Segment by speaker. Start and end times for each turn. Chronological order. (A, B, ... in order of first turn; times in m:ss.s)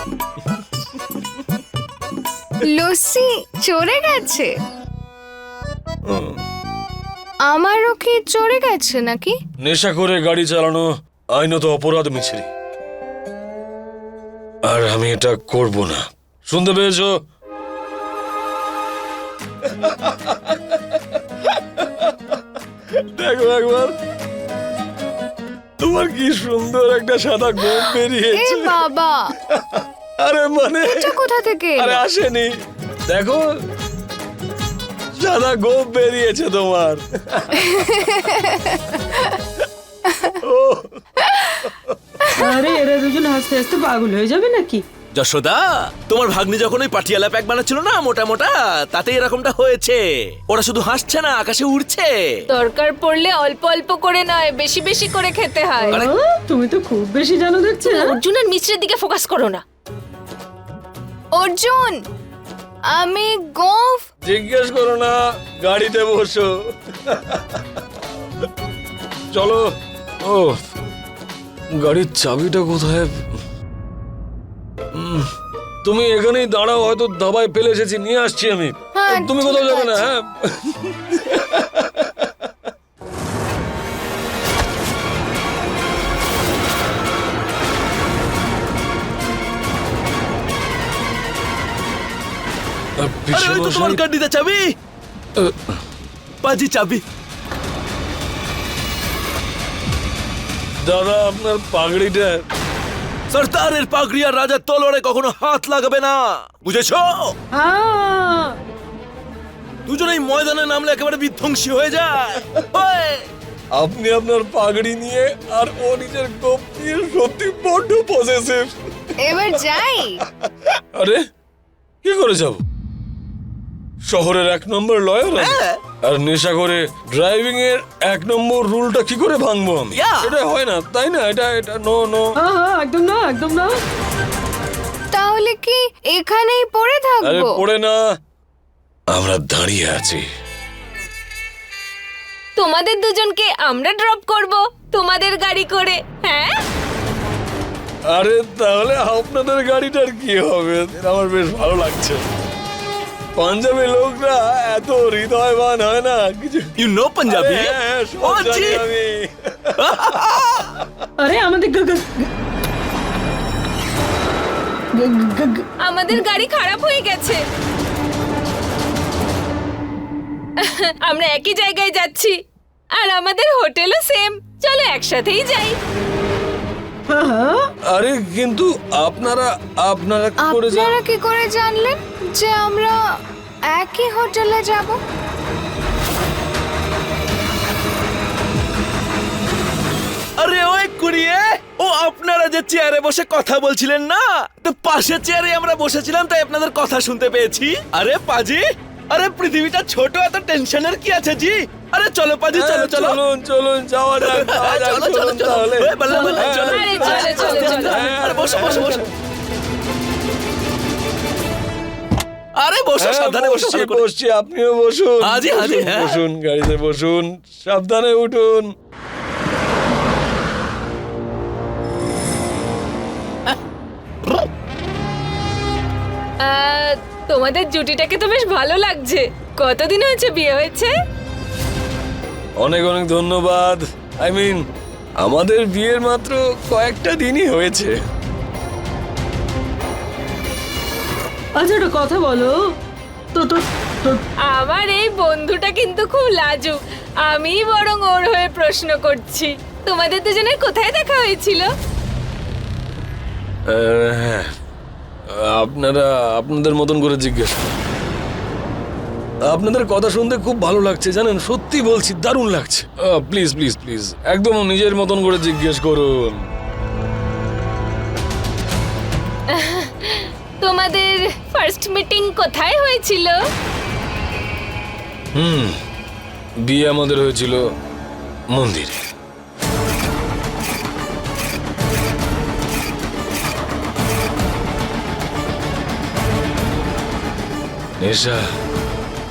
0:02.6-0:04.5 A
0:06.1-0:06.4 B
0:07.5-0:09.3 A
0:09.6-0:12.5 B
0:14.6-0:17.1 B
0:19.6-0:20.8 B
0:21.4-0:22.1 B
0:22.9-0:23.9 B
0:25.8-0:28.8 B
0:28.3-0:29.3 A
0:29.4-0:31.2 B
0:30.8-0:32.0 A
0:31.8-0:32.5 B
0:33.1-0:33.5 B
0:35.2-0:37.7 B
0:37.7-0:39.3 A
0:40.4-0:41.9 B
0:42.4-0:44.8 C
0:45.2-0:52.1 D
0:52.5-0:56.0 E
0:55.8-0:58.1 C
0:57.8-0:59.6 E
1:01.4-1:02.0 A
1:02.9-1:04.0 A
1:04.2-1:07.6 B
1:09.3-1:09.6 B
1:10.2-1:10.6 B
1:11.8-1:13.3 B
1:14.9-1:15.3 B
1:15.8-1:22.5 B
1:19.0-1:20.0 A
1:33.0-1:34.0 B
1:33.3-1:34.7 D
1:35.4-1:35.8 B
1:36.4-1:37.0 D
1:40.8-1:42.4 B
1:43.3-1:47.3 D
1:47.5-1:48.6 C
1:49.9-1:53.2 D
1:53.8-1:59.1 B
1:59.2-2:00.2 A
2:00.4-2:01.2 B
2:02.0-2:02.6 B
2:04.1-2:12.3 B
2:05.4-2:05.8 D
2:09.9-2:10.3 D
2:12.4-2:13.8 C
2:15.1-2:17.6 A
2:17.2-2:18.0 B
2:19.1-2:20.2 B
2:22.6-2:26.5 E
2:28.1-2:32.2 B
2:33.4-2:36.7 B
2:36.8-2:38.8 D
2:37.3-2:40.0 B
2:39.8-2:40.8 D
2:41.2-2:42.3 C
2:45.0-2:45.6 C
2:45.8-2:47.4 E
2:50.6-2:52.4 E
2:53.0-2:55.8 E
2:57.1-2:57.7 C
2:57.9-3:01.0 B
3:00.4-3:03.0 A
3:03.7-3:05.0 A
3:10.4-3:23.2 D
3:22.5-3:29.1 B
3:24.2-3:29.1 D
3:26.1-3:29.0 C
3:26.6-3:28.0 E
3:32.6-3:34.0 D
3:33.0-3:38.7 B
3:35.2-3:36.2 D
3:46.4-3:50.9 E
3:52.6-3:54.6 B
3:55.2-3:57.9 B
4:01.6-4:02.5 C
4:03.3-4:04.2 C
4:04.5-4:11.7 E
4:13.7-4:14.5 B
4:15.3-4:17.8 B
4:19.5-4:26.5 B
4:29.5-4:33.4 E
4:35.4-4:35.8 B
4:36.6-4:37.6 B
4:38.5-4:39.0 B
4:48.0-4:48.4 B